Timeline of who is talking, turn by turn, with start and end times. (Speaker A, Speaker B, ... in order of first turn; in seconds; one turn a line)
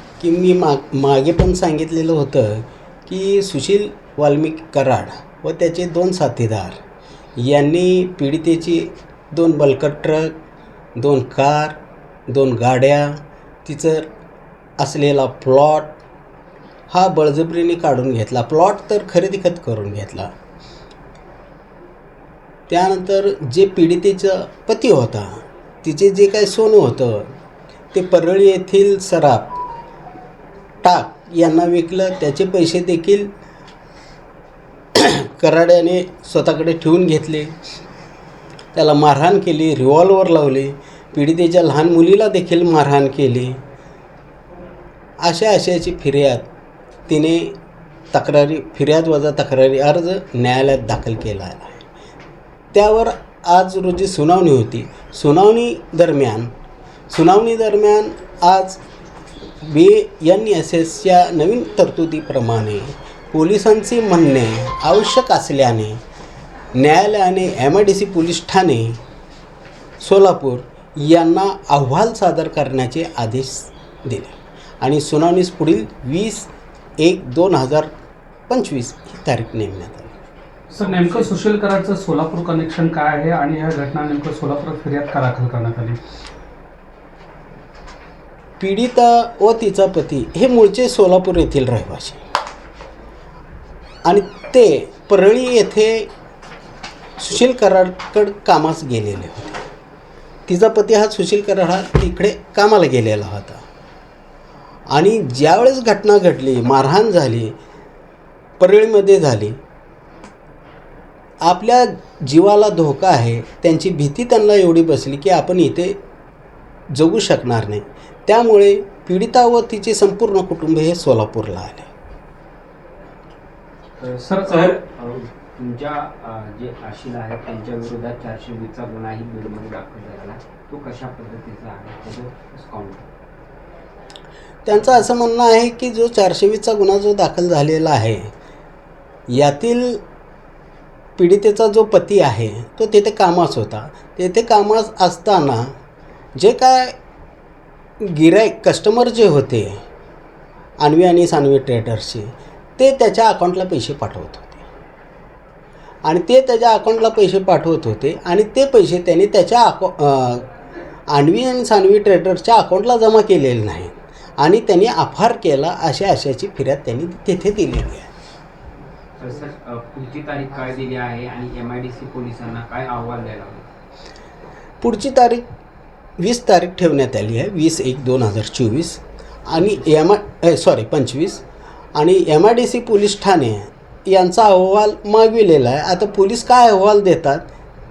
Speaker A: 0.2-6.8
Speaker A: 7.4-10.3
Speaker A: 11.0-14.1
Speaker A: 14.8-16.0
Speaker A: 16.9-20.3
Speaker A: 22.7-27.3
Speaker A: 27.9-29.6
Speaker A: 30.8-33.3
Speaker A: 35.0-37.5
Speaker A: 38.8-43.6
Speaker A: 45.2-46.5
Speaker A: 47.1-47.6
Speaker A: 48.1-51.8
Speaker A: 52.7-56.5
Speaker A: 57.1-58.8
Speaker A: 59.6-66.0
Speaker A: 66.8-69.0
Speaker A: 70.0-77.9
Speaker A: 78.5-80.2
Speaker B: 80.7-86.0
Speaker C: 80.8-81.2
Speaker A: 88.6-92.2
Speaker A: 94.1-96.1
Speaker A: 97.2-99.7
Speaker A: 100.5-103.6
Speaker A: 104.9-107.6
Speaker A: 108.6-109.6
Speaker A: 111.4-116.0
Speaker A: 116.9-121.9
Speaker C: 124.0-133.1
Speaker B: 124.2-124.8
Speaker A: 134.7-138.3
Speaker A: 139.3-140.0
Speaker A: 141.2-145.7
Speaker A: 146.4-147.0
Speaker A: 148.0-149.8
Speaker A: 150.8-154.6
Speaker A: 156.1-160.5
Speaker A: 161.1-168.1
Speaker C: 169.2-173.7
Speaker A: 174.8-175.4
Speaker A: 176.2-181.4
Speaker A: 182.0-187.4